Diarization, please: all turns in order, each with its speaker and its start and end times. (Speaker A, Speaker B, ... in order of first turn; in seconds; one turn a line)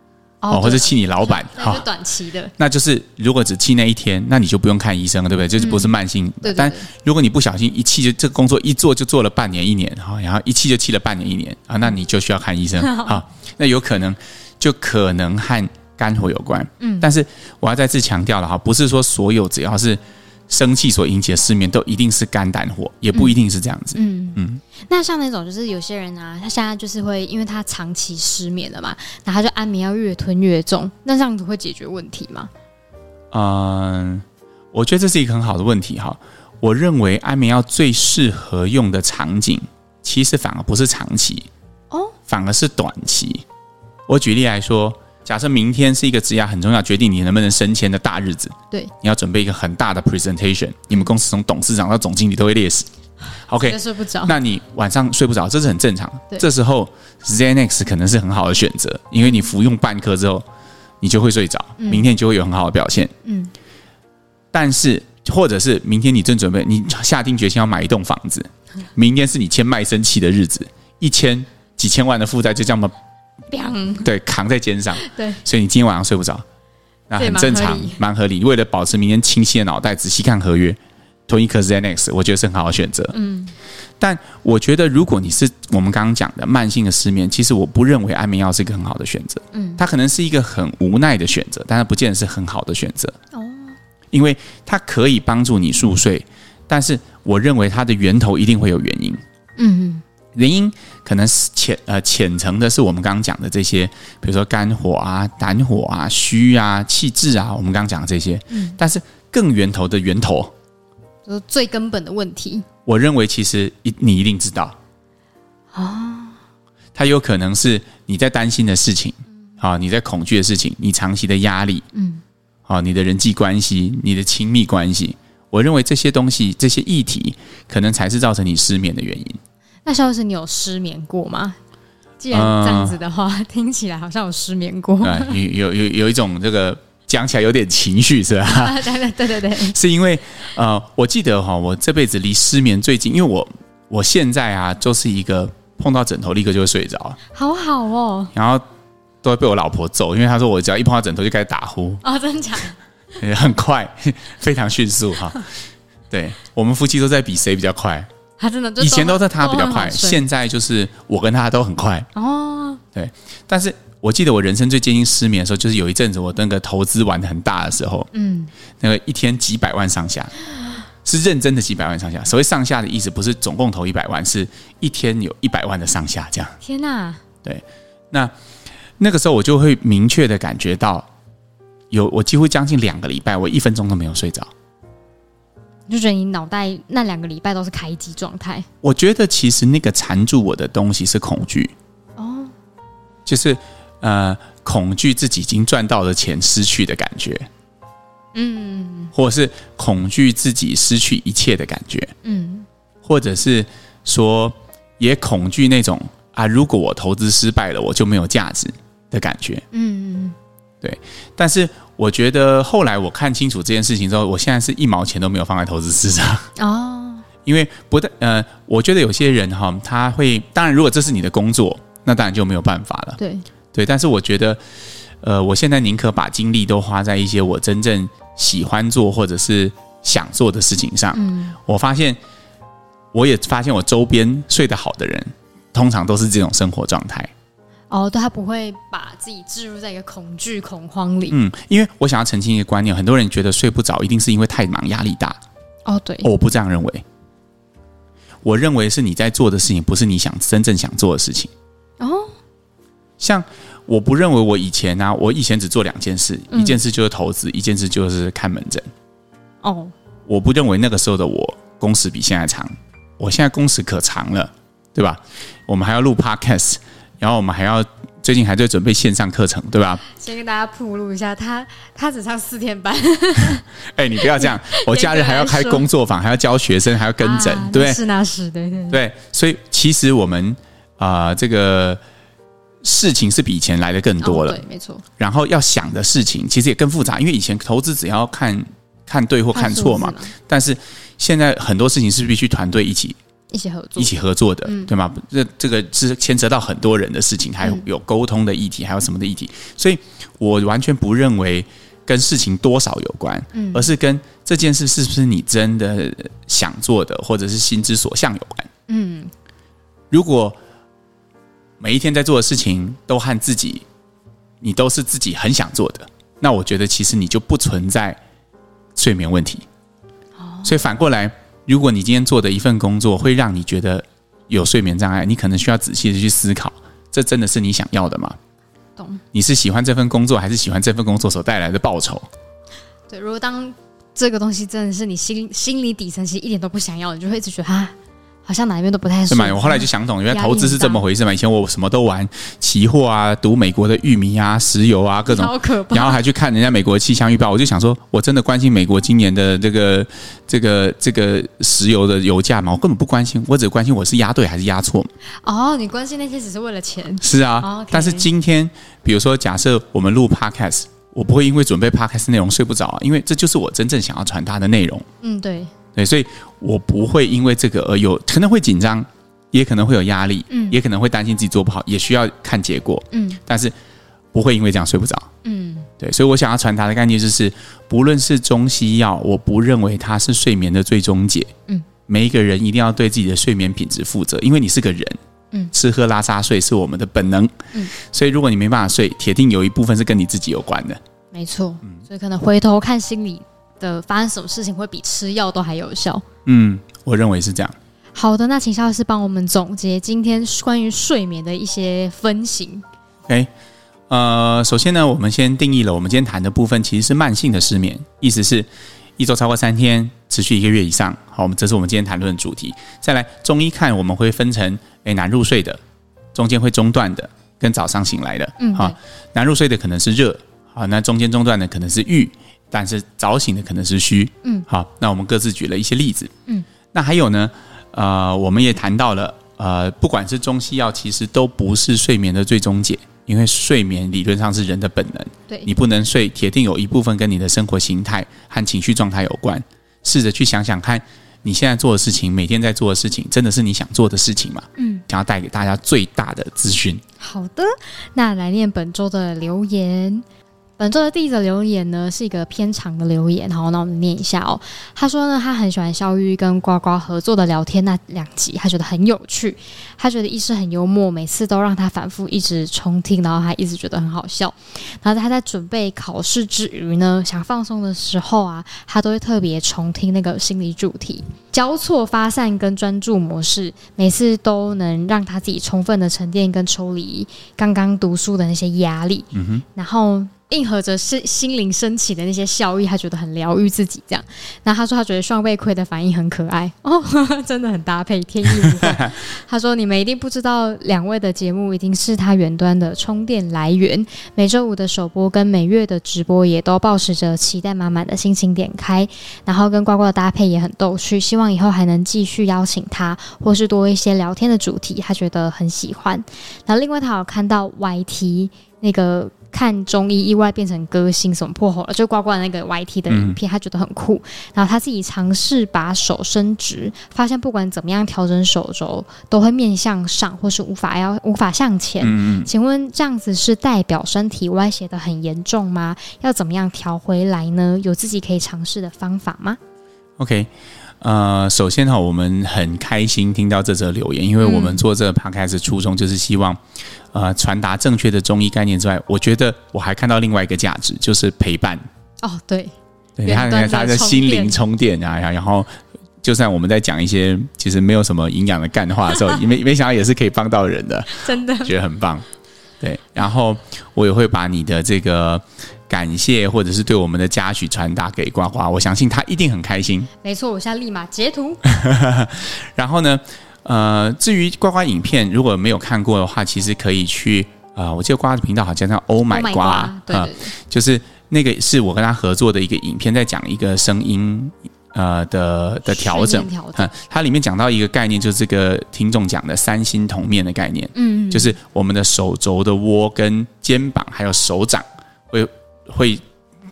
Speaker A: 0.4-2.5
Speaker B: 0.5-1.9
Speaker B: 2.6-24.6
Speaker A: 5.6-6.9
Speaker A: 12.8-13.2
Speaker A: 16.8-17.1
Speaker A: 23.9-32.5
Speaker B: 33.3-41.5
Speaker A: 41.9-42.2
Speaker B: 42.3-43.5
Speaker B: 44.1-52.9
Speaker B: 53.5-60.5
Speaker A: 53.6-54.4
Speaker A: 59.2-59.5
Speaker B: 61.0-63.1
Speaker A: 61.8-62.1
Speaker A: 63.2-63.5
Speaker B: 64.5-72.9
Speaker A: 73.5-74.1
Speaker B: 74.0-76.4
Speaker A: 75.0-75.4
Speaker B: 77.1-83.2
Speaker A: 77.2-78.0
Speaker A: 83.1-83.5
Speaker B: 84.0-93.2
Speaker A: 89.5-89.8
Speaker A: 93.3-93.8
Speaker B: 94.1-99.2
Speaker A: 99.6-100.0
Speaker B: 100.3-110.5
Speaker A: 108.5-108.8
Speaker A: 111.3-112.7
Speaker B: 112.9-114.8
Speaker A: 115.7-116.4
Speaker B: 117.0-121.8
Speaker A: 121.9-122.2
Speaker B: 122.7-129.4
Speaker A: 129.8-131.6
Speaker A: 132.2-135.4
Speaker B: 132.3-133.0
Speaker B: 135.0-138.8
Speaker A: 138.4-139.8
Speaker B: 139.6-147.2
Speaker A: 147.3-148.3
Speaker B: 148.3-148.7
Speaker B: 149.2-152.0
Speaker A: 152.0-152.8
Speaker B: 153.2-155.5
Speaker B: 156.1-158.1
Speaker A: 158.4-160.2
Speaker B: 158.8-162.1
Speaker A: 162.2-162.8
Speaker B: 162.9-168.1
Speaker A: 168.1-168.5
Speaker B: 168.8-170.3
Speaker A: 170.5-170.8
Speaker B: 171.0-176.6
Speaker A: 176.6-177.2
Speaker B: 177.4-178.3
Speaker B: 179.0-181.1
Speaker B: 181.9-184.5
Speaker A: 185.9-188.7
Speaker B: 188.8-191.7
Speaker A: 192.2-192.5
Speaker B: 193.3-197.5
Speaker A: 198.3-199.1
Speaker B: 199.1-202.2
Speaker A: 202.2-202.7
Speaker B: 203.1-209.6
Speaker A: 209.7-210.4
Speaker B: 210.8-216.5
Speaker A: 216.6-217.3
Speaker B: 217.5-223.2
Speaker A: 223.2-223.5
Speaker B: 223.7-224.6
Speaker B: 225.2-232.2
Speaker A: 231.1-231.6
Speaker B: 233.1-237.3
Speaker A: 237.9-241.4
Speaker B: 241.3-245.4
Speaker A: 245.9-246.3
Speaker B: 246.2-247.0
Speaker B: 248.4-251.5
Speaker A: 252.0-252.3
Speaker B: 253.2-258.9
Speaker A: 256.5-256.8
Speaker A: 259.6-259.9
Speaker B: 260.3-270.0
Speaker A: 270.0-273.7
Speaker B: 273.9-278.0
Speaker A: 274.2-275.9
Speaker A: 277.2-279.0
Speaker B: 278.9-282.0
Speaker B: 282.8-284.6
Speaker A: 284.2-285.0
Speaker B: 285.2-293.2
Speaker A: 289.5-290.3
Speaker A: 293.5-294.1
Speaker B: 294.0-308.7
Speaker A: 294.6-294.9
Speaker A: 303.5-303.9
Speaker A: 308.9-309.3
Speaker B: 310.1-310.6
Speaker B: 311.8-313.9
Speaker B: 314.6-318.2
Speaker B: 319.0-319.6
Speaker A: 320.4-320.8
Speaker B: 320.6-328.4
Speaker A: 329.0-329.2
Speaker B: 329.3-332.3
Speaker A: 333.1-337.9
Speaker A: 338.5-341.0
Speaker B: 339.3-355.1
Speaker A: 345.3-346.2
Speaker A: 355.4-358.3
Speaker B: 357.2-365.1
Speaker A: 365.2-365.7
Speaker B: 365.9-373.7
Speaker A: 370.5-370.8
Speaker A: 373.1-373.4
Speaker B: 374.3-375.3
Speaker A: 375.4-375.9
Speaker B: 376.0-381.5
Speaker B: 382.1-385.2
Speaker B: 385.7-391.0
Speaker A: 391.3-396.2
Speaker B: 396.5-397.8
Speaker A: 398.1-402.9
Speaker B: 404.1-415.8
Speaker B: 416.3-426.3
Speaker A: 418.6-419.0
Speaker B: 426.9-447.0
Speaker A: 444.8-445.0
Speaker A: 447.2-450.2
Speaker A: 450.8-529.6
Speaker B: 479.3-479.6
Speaker B: 488.6-489.2
Speaker B: 513.1-513.4
Speaker B: 522.0-522.5
Speaker B: 530.2-530.5
Speaker B: 531.0-536.6
Speaker A: 534.4-534.8
Speaker B: 537.1-541.8
Speaker A: 542.2-544.6
Speaker B: 543.2-545.7
Speaker B: 546.2-552.2
Speaker A: 551.1-551.7
Speaker B: 552.8-560.1
Speaker A: 560.2-561.6
Speaker B: 561.6-586.2
Speaker A: 569.3-570.5
Speaker A: 575.9-576.9
Speaker A: 581.0-581.6